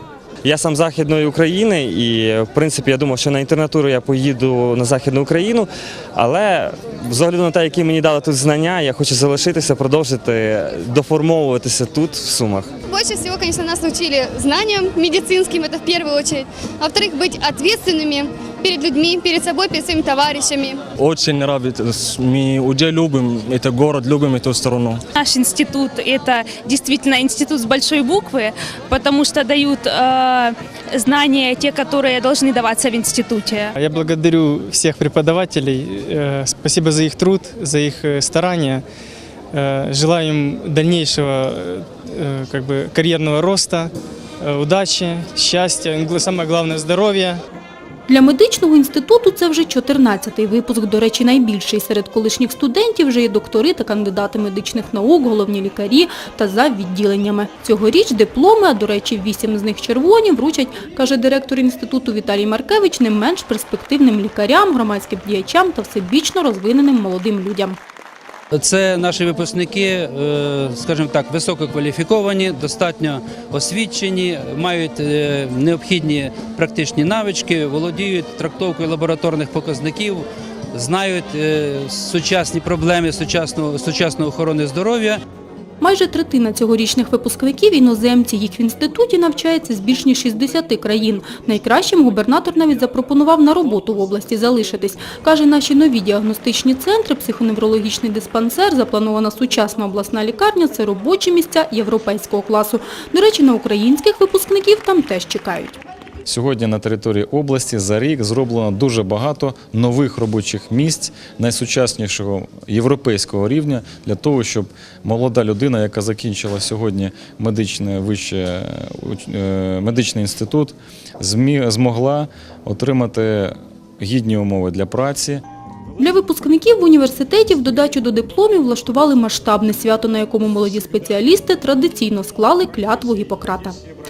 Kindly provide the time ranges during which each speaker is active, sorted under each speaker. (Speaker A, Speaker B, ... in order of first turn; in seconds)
Speaker A: 0.4-12.7
Speaker B: 12.9-20.8
Speaker C: 21.0-25.0
Speaker D: 25.2-33.7
Speaker E: 34.0-38.8, 39.5-43.9, 44.4-47.4
Speaker F: 48.1-67.8, 85.8-105.8, 126.0-133.8
Speaker G: 68.5-85.2
Speaker H: 106.3-125.4